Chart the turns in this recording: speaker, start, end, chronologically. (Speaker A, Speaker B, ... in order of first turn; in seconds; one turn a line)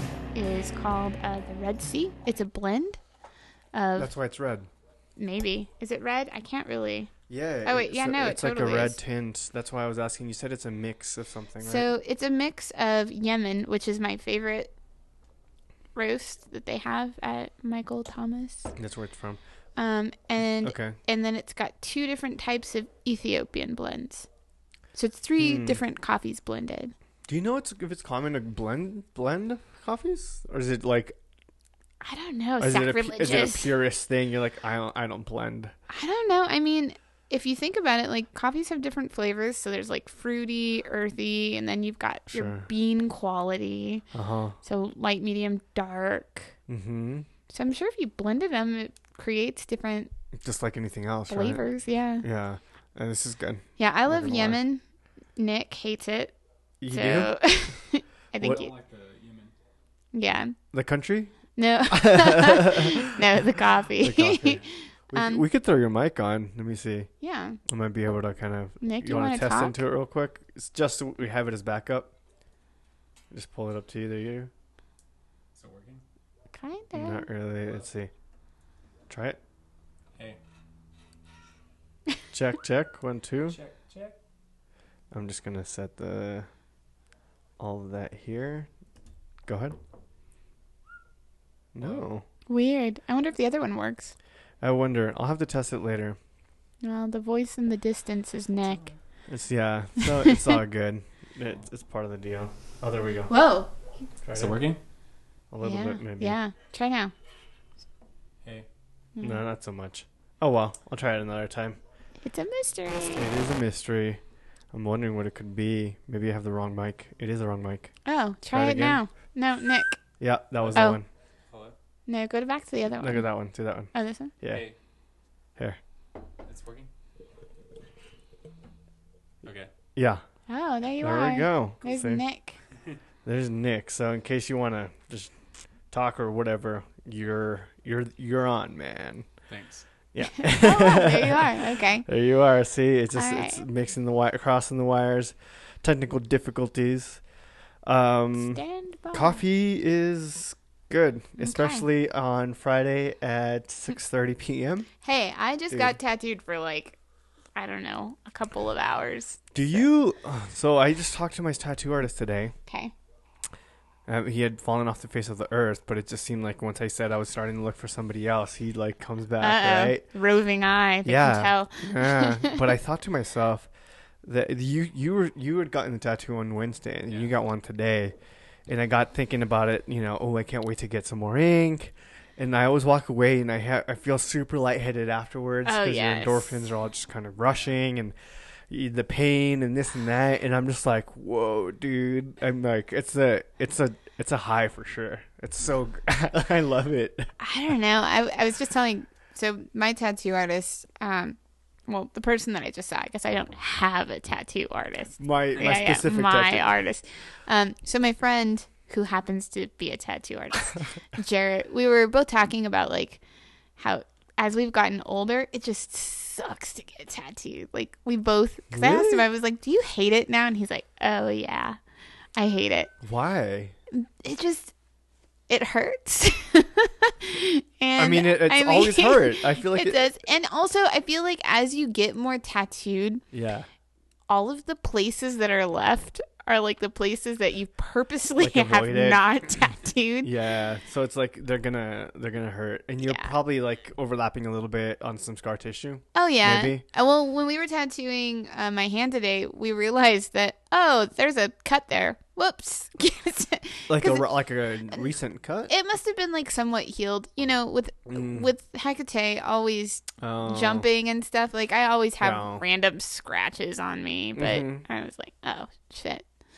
Speaker A: 0.3-3.0
Speaker A: 3.7-4.1
Speaker B: 4.0-4.7
Speaker A: 5.2-7.1
Speaker B: 7.3-11.9
Speaker A: 7.6-9.0
Speaker A: 11.6-14.7
Speaker A: 15.9-18.7
Speaker B: 18.8-19.4
Speaker A: 19.8-24.3
Speaker B: 20.6-21.0
Speaker A: 24.9-26.9
Speaker B: 25.4-25.8
Speaker B: 27.3-31.1
Speaker A: 32.0-33.7
Speaker B: 32.6-35.7
Speaker A: 35.9-44.0
Speaker B: 42.3-42.6
Speaker B: 44.1-44.6
Speaker A: 44.6-46.5
Speaker B: 46.7-47.3
Speaker A: 47.5-50.1
Speaker B: 50.3-51.6
Speaker A: 51.3-52.2
Speaker B: 52.2-54.6
Speaker A: 53.8-54.8
Speaker A: 55.4-56.3
Speaker B: 56.8-57.3
Speaker A: 56.9-58.7
Speaker C: 58.4-59.5
Speaker A: 60.1-60.5
Speaker B: 60.7-63.2
Speaker A: 61.5-65.4
Speaker B: 64.0-67.1
Speaker A: 67.2-67.6
Speaker B: 67.7-72.1
Speaker A: 68.8-69.8
Speaker B: 73.3-74.5
Speaker C: 75.5-76.0
Speaker A: 76.5-77.3
Speaker B: 76.9-78.1
Speaker B: 79.1-79.4
Speaker B: 82.3-83.6
Speaker C: 83.5-84.2
Speaker B: 85.1-86.5
Speaker B: 87.6-88.7
Speaker B: 89.5-89.8
Speaker B: 91.7-92.2
Speaker A: 92.5-94.1
Speaker B: 94.6-96.2
Speaker A: 96.8-98.9
Speaker C: 98.7-98.9
Speaker B: 99.3-103.3
Speaker A: 100.0-100.4
Speaker A: 103.3-103.7
Speaker B: 104.2-104.5
Speaker C: 104.3-104.8
Speaker B: 105.5-106.4
Speaker A: 105.6-107.1
Speaker B: 109.2-111.8
Speaker A: 112.2-113.2
Speaker B: 113.1-114.2
Speaker B: 114.7-117.9
Speaker A: 118.0-120.0
Speaker B: 118.5-119.0
Speaker B: 120.2-121.0
Speaker C: 120.6-120.9
Speaker C: 121.5-121.7
Speaker A: 122.1-123.3
Speaker B: 123.0-124.6
Speaker A: 123.9-124.3
Speaker C: 124.5-124.8
Speaker C: 126.4-126.9
Speaker C: 129.4-129.7
Speaker B: 129.9-130.2
Speaker A: 130.5-132.6
Speaker B: 131.0-132.2
Speaker B: 133.2-135.3
Speaker B: 135.9-139.3
Speaker C: 139.5-139.8
Speaker B: 140.1-147.2
Speaker A: 140.4-142.1
Speaker A: 143.1-143.6
Speaker B: 147.8-148.6
Speaker A: 148.4-149.4
Speaker B: 149.1-154.9
Speaker A: 151.4-151.8
Speaker A: 155.0-157.0
Speaker A: 157.5-159.8
Speaker B: 159.5-162.5
Speaker A: 162.7-162.9
Speaker B: 164.1-170.0
Speaker A: 169.4-172.7
Speaker B: 171.0-173.7
Speaker B: 174.2-178.1
Speaker B: 178.7-188.1
Speaker A: 185.6-186.6
Speaker B: 188.7-197.3
Speaker A: 197.4-213.2
Speaker B: 205.2-206.7
Speaker A: 213.8-221.8
Speaker B: 218.7-219.2
Speaker A: 222.3-222.9
Speaker B: 223.0-223.7
Speaker A: 223.9-224.7
Speaker A: 225.5-233.2
Speaker B: 228.0-230.1
Speaker B: 233.3-233.7
Speaker A: 234.3-240.3
Speaker B: 238.4-239.2
Speaker B: 240.2-246.8
Speaker A: 243.0-243.3
Speaker A: 246.1-254.3
Speaker B: 253.9-255.7
Speaker A: 255.7-266.2
Speaker B: 258.1-258.5
Speaker B: 260.2-260.9
Speaker B: 262.2-262.6
Speaker B: 264.4-264.8